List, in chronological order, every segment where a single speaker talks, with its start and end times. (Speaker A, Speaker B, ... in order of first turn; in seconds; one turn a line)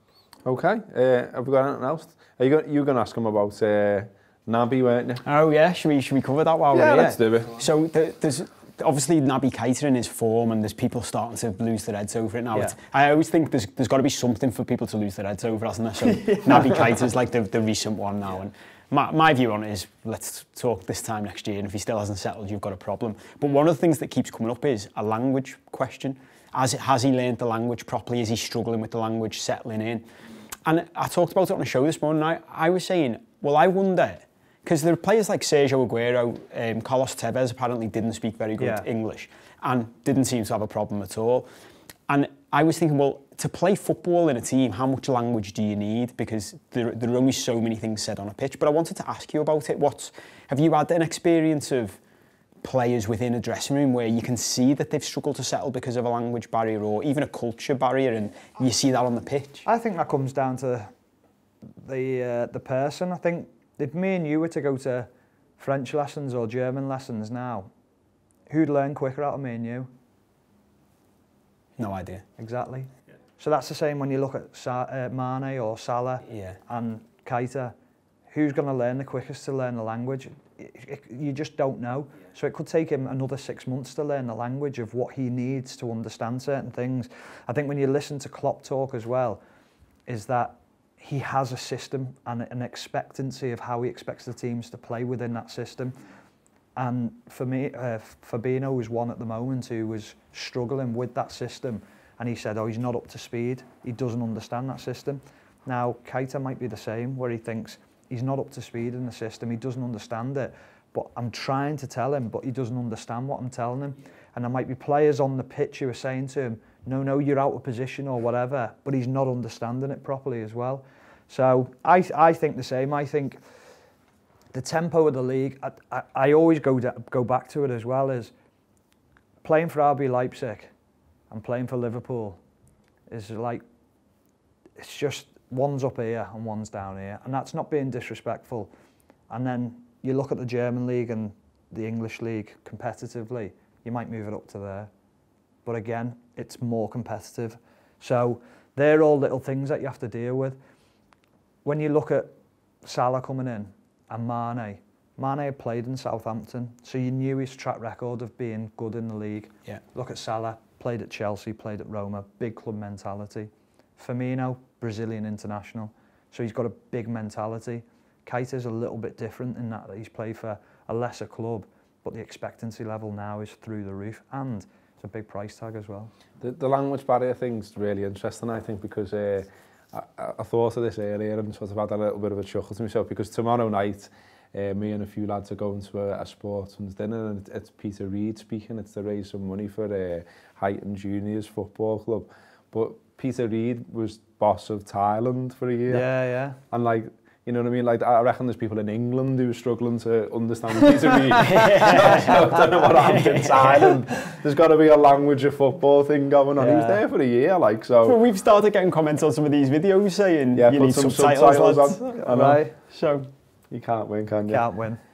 Speaker A: 0.5-5.2
Speaker B: 5.2-30.1
Speaker A: 6.7-7.6
Speaker B: 30.6-41.5
Speaker C: 38.6-38.8
Speaker B: 42.1-52.0
Speaker B: 52.6-59.6
Speaker C: 59.6-60.9
Speaker C: 61.8-67.7
Speaker C: 68.5-69.9
Speaker B: 71.8-72.2
Speaker C: 72.4-77.7
Speaker B: 76.3-76.6
Speaker C: 78.3-89.4
Speaker C: 90.1-96.0
Speaker C: 96.8-123.4
Speaker C: 124.5-128.3
Speaker C: 129.4-130.7
Speaker C: 131.3-132.4
Speaker C: 133.1-133.6
Speaker C: 134.8-138.7
Speaker C: 139.3-144.9
Speaker C: 145.6-150.6
Speaker C: 151.6-176.1
Speaker A: 176.4-196.1
Speaker C: 195.9-196.6
Speaker A: 196.7-208.2
Speaker C: 200.8-202.3
Speaker B: 201.4-204.0
Speaker C: 206.6-207.0
Speaker B: 208.0-213.3
Speaker A: 210.5-212.6
Speaker C: 212.2-212.7
Speaker A: 213.7-214.6
Speaker C: 214.5-215.0